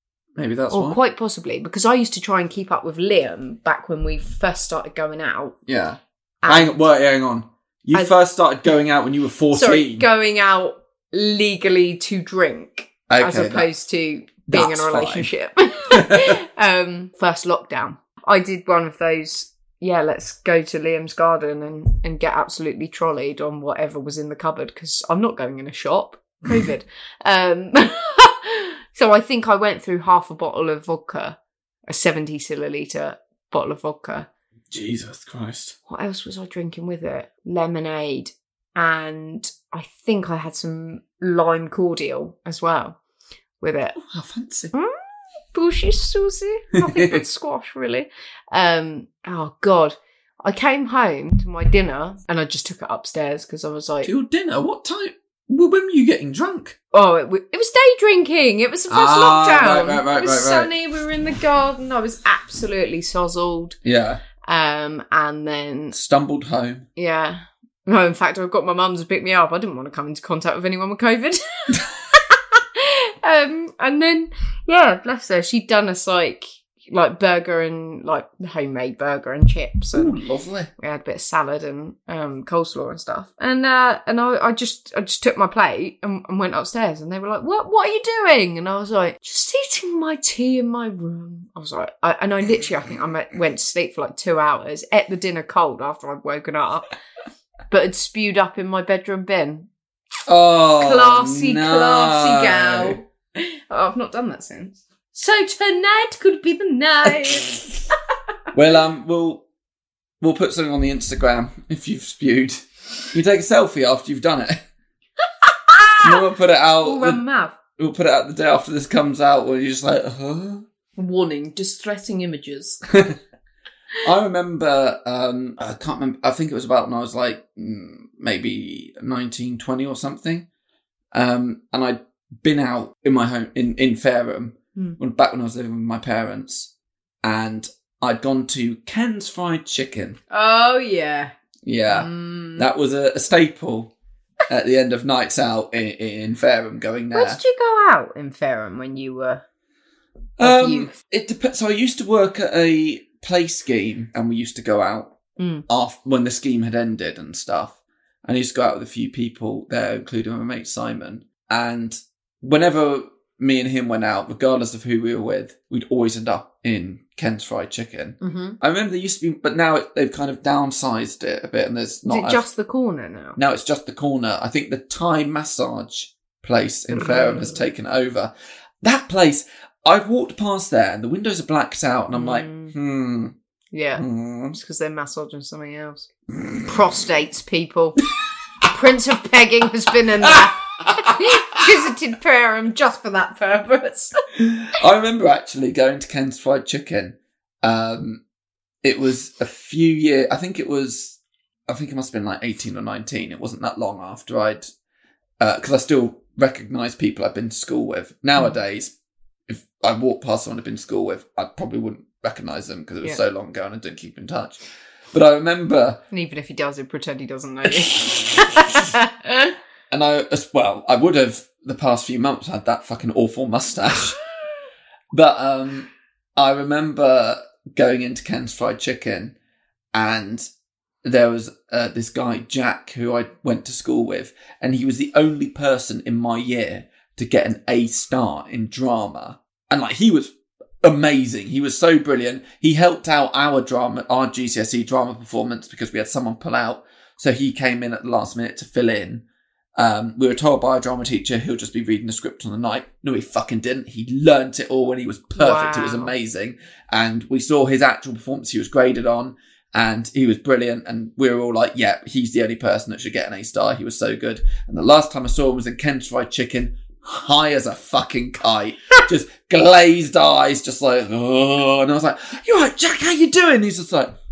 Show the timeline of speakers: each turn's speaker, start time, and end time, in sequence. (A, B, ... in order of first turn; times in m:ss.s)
0:00.4-0:01.0 A
0:00.7-0:05.6 B
0:05.7-0:10.1 A
0:06.4-0:06.7 B
0:09.5-0:34.3 B
0:13.1-0:13.7 A
0:14.5-0:15.3 A
0:15.9-0:16.4 A
0:34.7-0:35.8 A
0:35.9-0:43.0 B
0:43.6-0:43.9 B
0:44.0-0:44.7 A
0:44.7-0:54.1 B
0:46.7-0:47.2 A
0:54.0-0:56.8 A
0:56.9-1:03.8 B
0:58.9-1:00.7 A
1:03.8-1:04.2 A
1:04.4-1:05.9 B
1:05.9-1:06.8 A
1:07.0-1:20.2 B
1:19.9-1:20.7 A
1:20.8-1:36.9 B
1:37.7-1:39.7 B
1:40.3-1:43.0 A
1:40.8-1:47.9 B
1:48.5-1:49.4 A
1:50.2-1:54.6 A
1:55.4-1:56.3 B
1:56.0-1:57.2 A
1:56.8-1:57.6 B
1:57.8-2:00.6 A
2:01.0-2:02.8 B
2:02.9-2:03.2 A
2:04.0-2:10.4 A
2:11.1-2:16.7 A
2:17.2-2:20.2 A
2:20.3-2:21.3 B
2:21.6-2:23.9 A
2:21.9-2:22.7 B
2:24.5-2:27.4 A
2:27.1-2:29.4 B
2:30.4-2:52.4 A
2:30.4-2:30.9 B
2:35.4-2:35.6 B
2:48.2-2:48.6 B
2:52.1-2:53.4 B
2:53.4-3:03.3 A
2:56.9-2:57.6 B
3:02.1-3:02.7 B
3:03.7-3:06.1 B
3:04.0-3:04.6 A
3:06.6-3:08.0 B
3:08.6-3:14.2 B
3:10.2-3:11.6 A
3:14.4-3:18.2 A
3:18.8-3:24.7 A
3:25.4-3:28.9 A
3:29.5-3:34.6 A
3:35.1-3:36.0 A
3:36.1-3:39.5 B
3:37.8-3:38.8 A
3:39.9-3:44.2 A
3:45.1-3:49.3 A
3:49.9-3:50.5 A
3:51.0-4:09.2 A
4:09.8-4:34.1 A
4:15.3-4:16.1 B